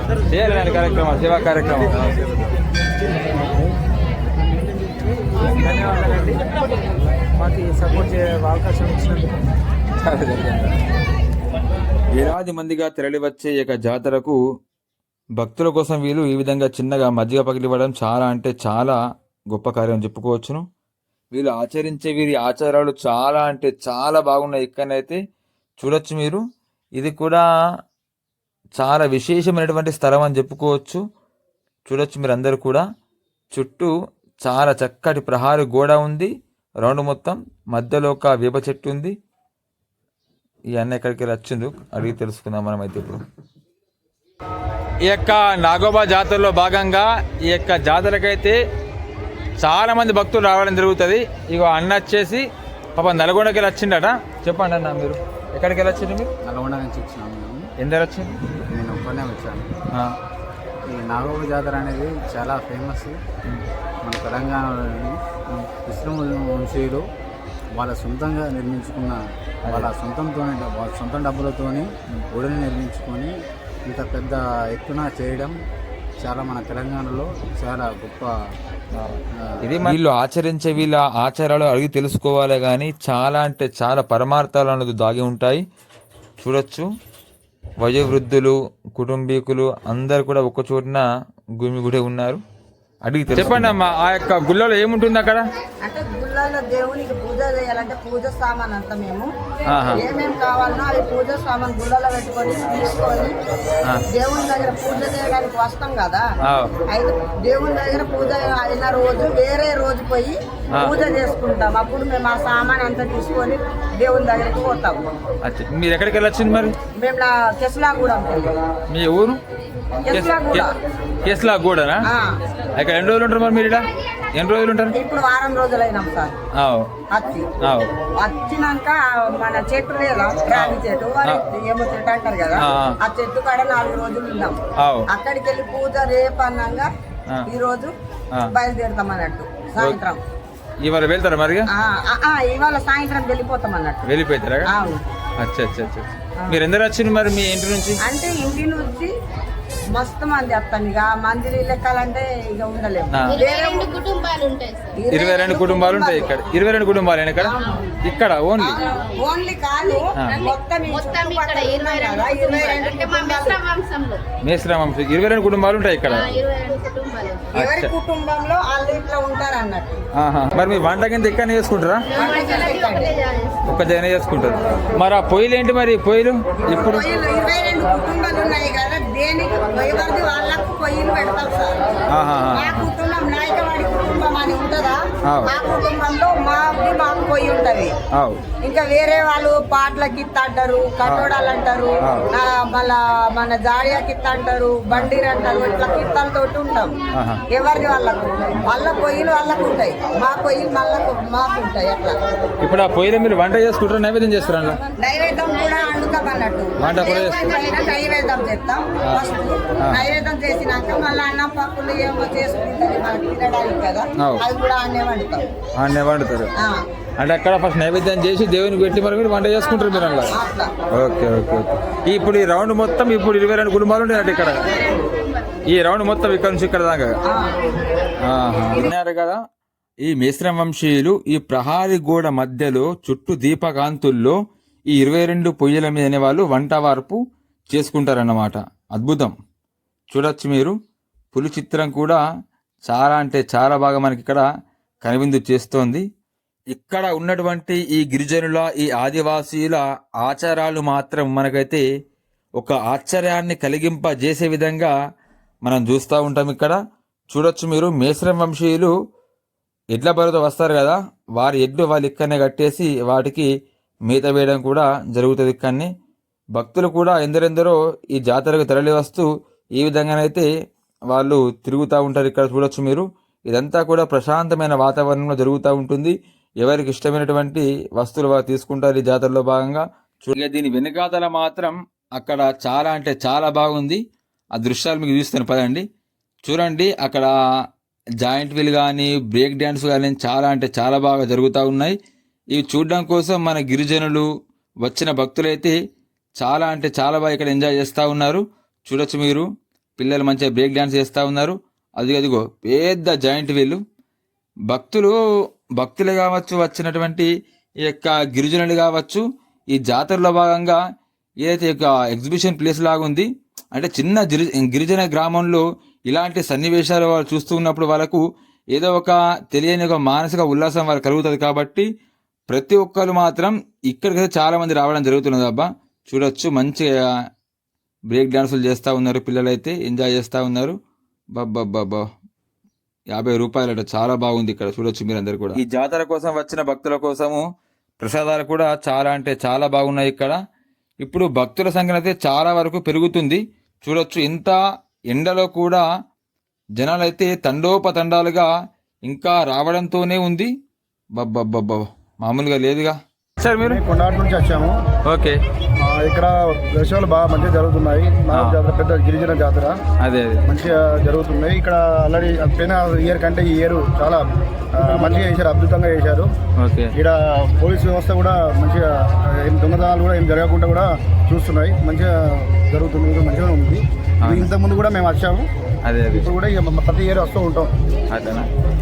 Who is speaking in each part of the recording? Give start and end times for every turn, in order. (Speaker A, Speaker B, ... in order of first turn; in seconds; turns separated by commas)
Speaker A: 0.3-1.9, Speaker B: 3.4-3.7, Speaker B: 5.5-6.5, Speaker B: 7.3-9.4, Speaker A: 10.0-10.7, Speaker A: 12.1-14.4, Speaker A: 15.4-19.0, Speaker A: 19.5-20.6, Speaker A: 21.3-25.2, Speaker A: 25.8-26.4, Speaker A: 27.0-27.4, Speaker A: 28.8-31.0, Speaker A: 31.9-32.8, Speaker A: 33.5-33.9, Speaker A: 34.4-36.3, Speaker A: 36.8-39.1, Speaker A: 40.7-43.2, Speaker A: 45.0-48.6, Speaker A: 49.6-56.3, Speaker C: 56.4-57.7, Speaker A: 57.8-58.4, Speaker C: 58.7-59.7, Speaker C: 60.9-63.2, Speaker C: 64.0-67.0, Speaker C: 67.8-73.3, Speaker A: 69.6-69.9, Speaker C: 73.9-75.5, Speaker C: 76.2-78.3, Speaker A: 78.9-85.6, Speaker C: 79.4-79.9, Speaker A: 86.4-86.9, Speaker A: 87.8-91.0, Speaker A: 91.6-92.4, Speaker A: 93.0-95.4, Speaker D: 95.8-99.3, Speaker A: 99.7-100.0, Speaker D: 100.0-103.3, Speaker D: 104.1-106.2, Speaker A: 106.5-106.7, Speaker D: 106.9-115.0, Speaker A: 115.4-116.7, Speaker D: 117.0-118.6, Speaker A: 118.9-119.4, Speaker D: 120.0-120.7, Speaker A: 120.1-120.7, Speaker A: 121.2-122.0, Speaker D: 122.1-122.4, Speaker A: 122.7-123.8, Speaker A: 124.3-124.9, Speaker D: 124.9-126.3, Speaker A: 126.6-126.9, Speaker D: 127.1-127.5, Speaker A: 127.6-127.9, Speaker D: 128.2-134.6, Speaker A: 130.5-131.4, Speaker A: 132.6-133.0, Speaker A: 134.8-135.1, Speaker D: 135.1-136.9, Speaker D: 137.5-137.9, Speaker D: 138.5-140.2, Speaker A: 140.8-141.7, Speaker D: 141.7-144.1, Speaker A: 144.1-144.7, Speaker D: 144.7-145.0, Speaker A: 145.4-148.0, Speaker D: 148.1-149.1, Speaker D: 149.9-154.0, Speaker A: 153.1-153.4, Speaker E: 153.3-154.9, Speaker D: 155.0-156.3, Speaker A: 155.1-157.5, Speaker D: 157.4-157.7, Speaker A: 158.0-158.8, Speaker D: 158.6-163.6, Speaker E: 160.9-164.2, Speaker A: 164.4-166.3, Speaker E: 166.0-167.5, Speaker A: 167.5-167.9, Speaker D: 167.5-170.0, Speaker A: 170.2-172.1, Speaker D: 172.2-173.1, Speaker E: 172.2-173.6, Speaker A: 173.7-177.1, Speaker D: 176.7-181.8, Speaker A: 182.1-182.9, Speaker D: 182.5-187.9, Speaker A: 185.2-185.5, Speaker A: 188.1-188.4, Speaker D: 188.6-196.9, Speaker A: 192.0-192.3, Speaker A: 197.1-197.4, Speaker D: 197.5-202.2, Speaker A: 202.6-204.8, Speaker D: 205.0-215.4, Speaker A: 206.8-207.4, Speaker A: 215.8-216.5, Speaker A: 217.2-220.3, Speaker D: 219.9-220.7, Speaker A: 220.9-224.7, Speaker E: 224.7-225.5, Speaker A: 225.7-227.2, Speaker D: 227.3-227.6, Speaker A: 228.2-229.4, Speaker A: 230.0-234.4, Speaker A: 234.9-237.2, Speaker A: 237.7-239.3, Speaker A: 240.1-240.7, Speaker A: 241.3-242.2, Speaker A: 242.9-244.4, Speaker A: 245.0-246.0, Speaker A: 246.7-251.8, Speaker A: 252.6-254.9, Speaker A: 255.6-256.8, Speaker A: 257.3-258.9, Speaker A: 259.9-263.5, Speaker A: 264.1-265.9, Speaker A: 266.6-269.3, Speaker A: 269.8-270.5, Speaker A: 271.1-284.0, Speaker A: 284.6-285.8, Speaker A: 286.4-287.3, Speaker A: 288.2-292.0, Speaker A: 292.5-294.3, Speaker A: 294.8-295.7, Speaker A: 296.4-299.5, Speaker A: 300.0-303.8, Speaker A: 304.7-305.1, Speaker A: 305.8-307.3, Speaker A: 307.8-310.8, Speaker A: 311.4-318.2, Speaker A: 318.7-321.9, Speaker A: 322.5-327.0, Speaker A: 328.1-330.8, Speaker A: 331.4-332.0, Speaker A: 333.1-337.4, Speaker A: 338.0-340.4, Speaker A: 341.0-344.6, Speaker A: 345.1-345.9, Speaker A: 346.8-348.5, Speaker A: 349.1-350.5, Speaker A: 351.2-353.8, Speaker F: 353.7-354.8, Speaker A: 355.1-355.4, Speaker F: 355.9-359.8, Speaker A: 358.3-358.6, Speaker A: 360.0-360.4, Speaker F: 360.5-364.2, Speaker F: 364.8-366.3, Speaker A: 366.6-366.9, Speaker F: 367.0-375.5, Speaker A: 374.2-374.5, Speaker A: 375.9-376.3, Speaker F: 376.3-377.7, Speaker A: 378.1-378.5